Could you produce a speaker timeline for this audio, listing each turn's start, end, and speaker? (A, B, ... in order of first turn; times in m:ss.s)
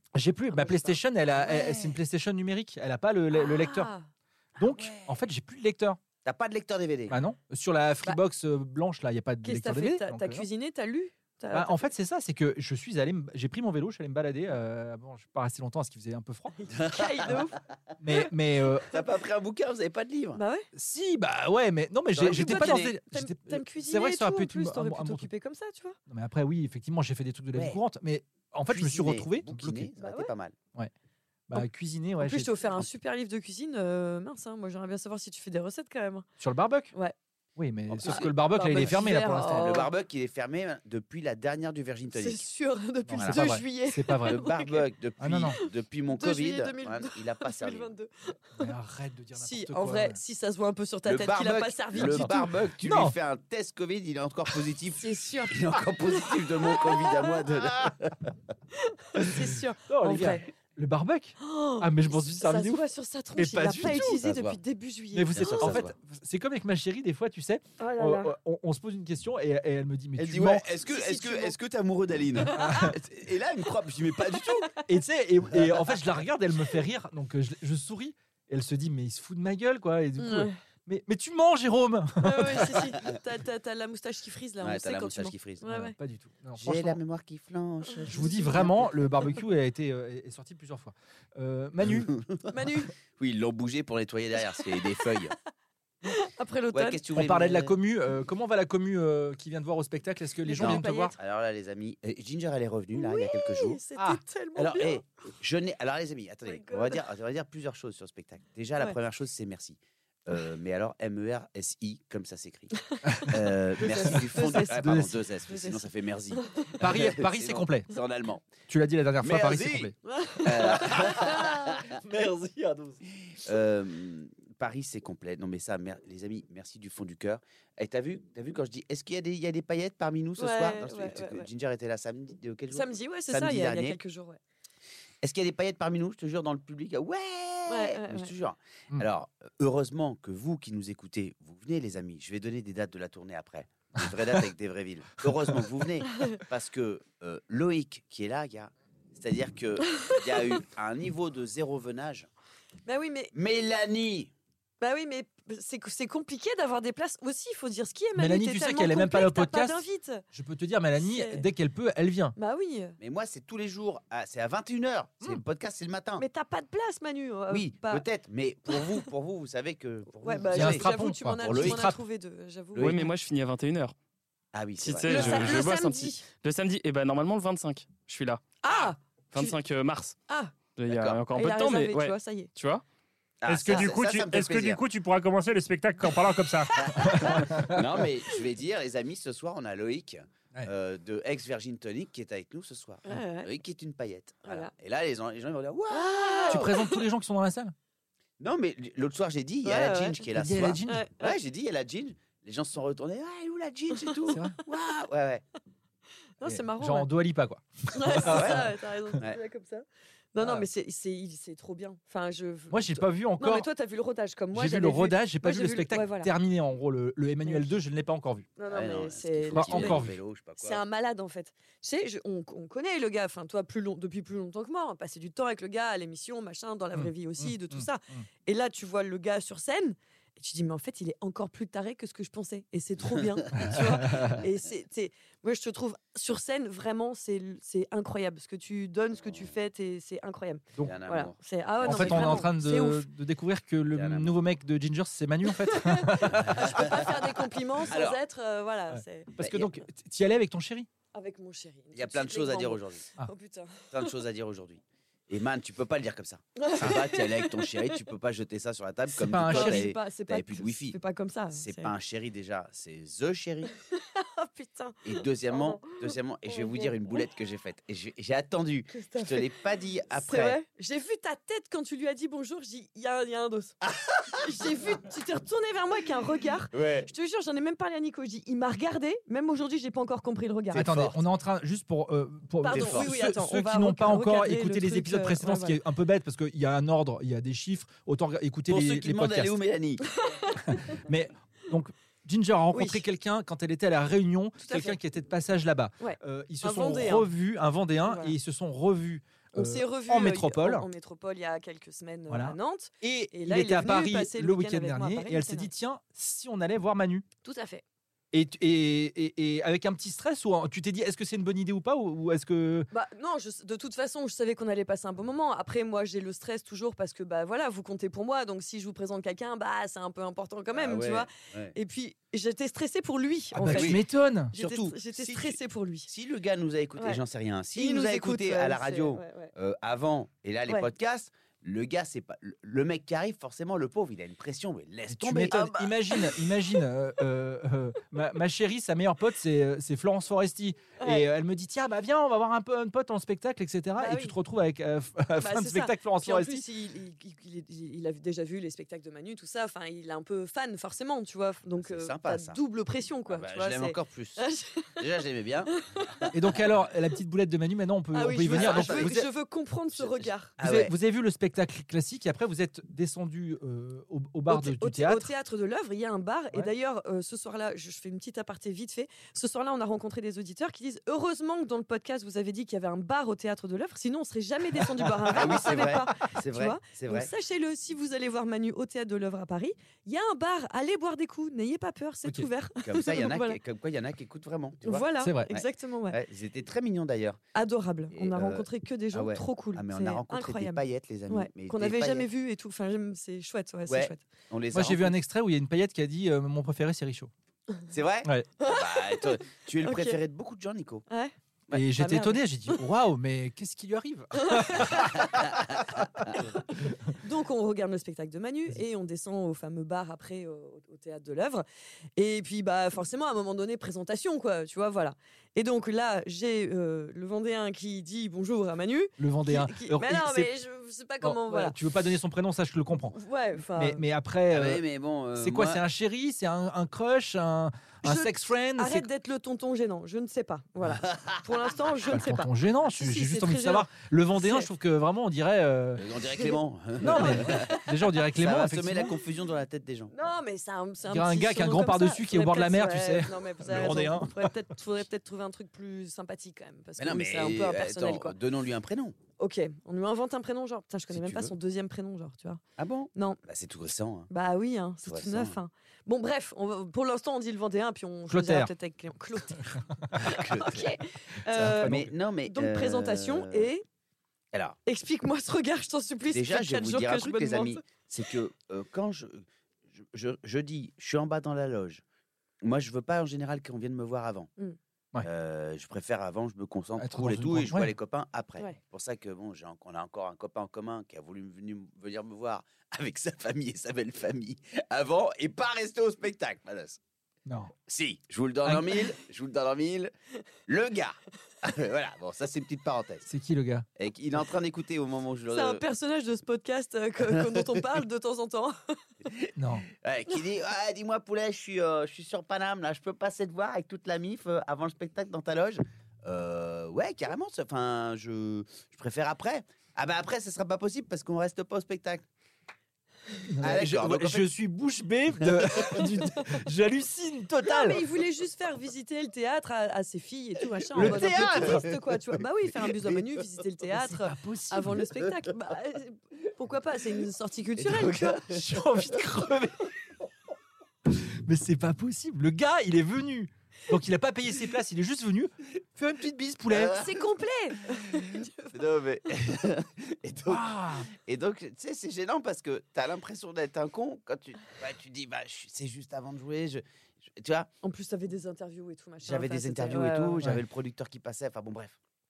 0:00.2-0:03.9 A
0:00.5-0:01.0 B
0:01.4-0:01.9 C
0:03.3-0:04.1 B
0:04.6-0:06.0 A
0:04.6-0:05.1 C
0:06.2-0:07.2 C
0:07.1-0:10.5 A
0:09.4-0:11.8 B
0:11.5-0:16.5 A
0:16.5-0:17.6 B
0:16.7-0:17.4 C
0:18.0-0:19.0 A
0:18.9-0:20.4 C
0:20.4-0:20.7 B
0:20.7-0:25.3 A
0:22.2-0:23.0 C
0:22.2-0:26.0 B
0:26.1-0:29.9 A
0:27.5-0:27.8 C
0:28.7-0:30.6 C
0:30.0-0:30.3 B
0:31.5-0:32.9 A
0:32.2-0:36.3 B
0:36.4-0:36.9 A
0:37.6-0:39.7 A
0:37.9-0:42.5 C
0:38.0-0:39.9 B
0:42.1-0:44.9 B
0:43.1-0:44.5 A
0:43.2-0:43.4 C
0:44.3-0:47.9 C
0:45.2-0:45.6 A
0:46.1-0:48.7 B
0:48.6-0:50.2 A
0:49.4-0:52.5 B
0:51.1-0:58.4 C
0:52.0-0:53.2 A
0:55.0-0:57.4 B
0:58.7-1:00.5 B
0:59.2-1:02.8 A
1:01.4-1:05.8 B
1:03.4-1:04.2 A
1:03.9-1:04.6 C
1:05.1-1:10.7 A
1:05.4-1:05.9 C
1:07.8-1:08.4 B
1:10.2-1:14.7 C
1:10.9-1:11.6 B
1:12.4-1:12.9 B
1:12.5-1:13.0 A
1:14.3-1:14.8 B
1:14.9-1:22.8 A
1:15.5-1:16.0 C
1:20.2-1:20.6 B
1:22.2-1:26.0 B
1:24.6-1:25.6 C
1:25.6-1:27.0 A
1:26.6-1:28.9 C
1:28.0-1:28.9 B
1:28.1-1:32.2 A
1:31.9-1:32.5 C
1:32.5-1:32.9 B
1:33.1-1:35.4 C
1:34.5-1:34.8 B
1:36.0-1:37.0 B
1:36.7-1:37.8 C
1:37.1-1:41.1 A
1:40.5-1:41.2 B
1:40.5-1:43.8 C
1:42.9-1:45.0 B
1:44.6-1:58.5 C
1:46.5-1:47.0 B
1:52.9-1:56.7 B
1:53.0-1:55.2 A
1:56.8-1:57.9 A
1:58.7-2:00.0 A
1:59.2-2:02.0 C
2:00.0-2:01.8 B
2:00.5-2:01.4 A
2:01.9-2:03.0 A
2:03.2-2:14.0 C
2:10.4-2:11.5 B
2:12.7-2:14.4 B
2:15.2-2:32.3 C
2:17.7-2:18.3 B
2:26.1-2:26.4 B
2:29.8-2:30.6 B
2:32.9-2:33.3 B
2:33.3-2:34.3 C
2:34.8-2:40.2 B
2:38.2-2:42.4 A
2:41.0-2:41.5 B
2:42.4-2:43.0 B
2:43.0-2:46.2 C
2:46.2-2:48.0 B
2:47.5-2:51.9 C
2:48.7-2:49.0 B
2:50.2-2:52.9 B
2:50.5-2:52.0 A
2:52.8-2:53.1 C
2:52.8-2:54.0 D
2:54.5-2:55.6 C
2:54.8-3:00.2 D
2:55.1-2:56.3 B
2:58.6-2:59.6 B
3:00.3-3:00.5 B
3:00.8-3:02.8 D
3:00.9-3:01.2 C
3:01.4-3:02.5 B
3:03.4-3:04.8 C
3:03.5-3:07.3 E
3:06.8-3:16.7 C
3:06.9-3:07.6 B
3:07.1-3:07.8 A
3:13.1-3:13.5 B
3:14.5-3:14.7 B
3:15.9-3:17.0 B
3:16.5-3:17.7 A
3:18.4-3:25.4 C
3:19.6-3:20.2 B
3:20.4-3:21.0 A
3:20.9-3:21.4 B
3:23.9-3:24.4 B
3:24.3-3:24.6 A
3:26.4-3:27.1 B
3:26.4-3:29.2 A
3:27.9-3:36.3 B
3:28.2-3:28.7 C
3:30.4-3:30.7 A
3:32.7-3:33.7 A
3:34.5-3:38.5 A
3:37.5-3:37.7 B
3:38.6-3:40.0 B
3:38.7-3:40.8 C
3:39.5-3:40.2 A
3:40.6-4:03.1 B
3:47.0-3:48.2 A
3:53.1-3:53.8 C
3:53.6-3:54.4 A
3:59.2-3:59.5 C
4:00.8-4:02.5 C
4:01.8-4:07.0 A
4:03.9-4:04.4 C
4:05.5-4:09.4 B
4:06.3-4:08.2 C
4:08.9-4:10.9 A
4:09.4-4:09.7 C
4:11.1-4:14.1 B
4:11.9-4:13.1 C
4:13.9-4:21.0 C
4:16.6-4:18.0 B
4:19.2-4:19.9 A
4:19.5-4:21.9 B
4:21.5-4:23.7 C
4:23.8-4:26.9 B
4:25.0-4:30.6 C
4:28.9-4:29.5 B
4:30.1-4:33.8 B
4:33.8-4:34.5 C
4:34.3-4:40.9 B
4:36.7-4:37.1 C
4:40.7-4:41.2 C
4:40.7-4:49.6 A
4:42.6-4:45.8 B
4:42.7-4:43.1 C
4:48.7-4:50.1 C
4:50.1-4:50.9 B
4:50.6-5:00.9 A
4:52.7-4:53.0 B
4:54.6-4:55.0 B
4:56.0-4:57.3 B
4:58.0-4:58.3 B
4:59.6-5:05.7 B
5:02.3-5:07.2 A
5:07.4-5:07.8 B
5:08.3-5:12.9 A
5:12.9-5:24.0 B
5:20.7-5:21.8 C
5:23.5-5:24.6 A
5:23.7-5:24.0 C
5:24.5-5:26.1 B
5:24.5-5:35.9 C
5:27.8-5:29.5 B
5:35.1-5:46.7 A
5:35.5-5:36.5 B
5:41.0-5:41.2 B
5:44.0-5:44.4 B
5:45.4-5:55.0 B
5:51.8-5:52.6 C
5:53.3-5:54.4 C
5:55.0-5:56.2 C
5:55.7-5:56.3 B
5:56.3-5:59.3 A
5:58.1-6:00.6 B
5:58.5-5:59.2 C
5:59.9-6:00.9 C
6:00.6-6:05.3 A
6:04.5-6:23.6 B
6:14.8-6:16.2 A
6:15.3-6:17.3 C
6:22.8-6:27.4 C
6:24.8-6:26.2 B
6:25.2-6:25.5 A
6:27.6-6:34.2 B
6:28.1-6:32.3 C
6:33.9-6:35.2 C
6:34.7-6:37.3 A
6:37.9-6:41.0 C
6:38.6-6:40.2 B
6:41.1-6:41.3 B
6:41.7-6:45.2 A
6:42.0-6:42.8 B
6:44.4-6:45.5 B
6:45.1-6:46.4 C
6:46.2-6:51.6 B
6:52.2-7:01.8 B
6:59.2-7:00.5 A
7:01.2-7:03.2 A
7:03.1-7:04.0 B
7:03.7-7:04.8 A
7:04.5-7:05.8 C
7:05.4-7:09.1 A
7:08.0-7:14.7 B
7:11.0-7:11.4 C
7:12.1-7:16.1 A
7:16.0-7:17.8 C
7:17.0-7:19.2 A
7:17.0-7:18.1 B
7:18.3-7:20.1 C
7:20.1-7:28.4 B
7:21.1-7:24.5 A
7:27.0-7:29.2 C
7:29.4-7:32.6 B
7:31.1-7:31.5 C
7:32.8-7:34.3 C
7:33.2-7:33.4 B
7:34.3-7:43.8 B
7:35.0-7:35.6 C
7:38.3-7:38.7 A
7:40.2-7:40.9 C
7:41.5-7:42.1 A
7:41.6-7:43.7 C
7:44.5-7:44.8 C
7:44.9-7:47.8 B
7:46.3-7:52.0 C
7:52.6-7:54.5 C
7:55.2-8:07.0 C
7:57.0-7:57.9 A
8:07.5-8:07.7 A
8:07.9-8:10.1 C
8:08.6-8:08.9 A
8:10.7-8:13.3 C
8:13.3-8:13.9 A
8:14.0-8:15.8 C
8:15.5-8:19.1 B
8:17.2-8:17.8 C
8:19.2-8:32.3 C
8:19.6-8:19.9 A
8:33.5-8:38.0 A
8:33.6-8:34.5 C
8:35.4-8:36.0 C
8:37.6-8:48.4 B
8:41.0-8:41.9 A
8:41.0-8:43.6 C
8:44.0-8:45.0 A
8:45.2-8:45.5 C
8:47.8-8:49.1 C
8:48.4-8:49.9 A
8:51.1-8:57.0 A
8:56.7-8:57.3 C
8:56.9-8:58.7 B
8:57.9-9:07.7 C
9:00.5-9:01.1 A
9:07.8-9:10.4 B
9:09.2-9:12.0 C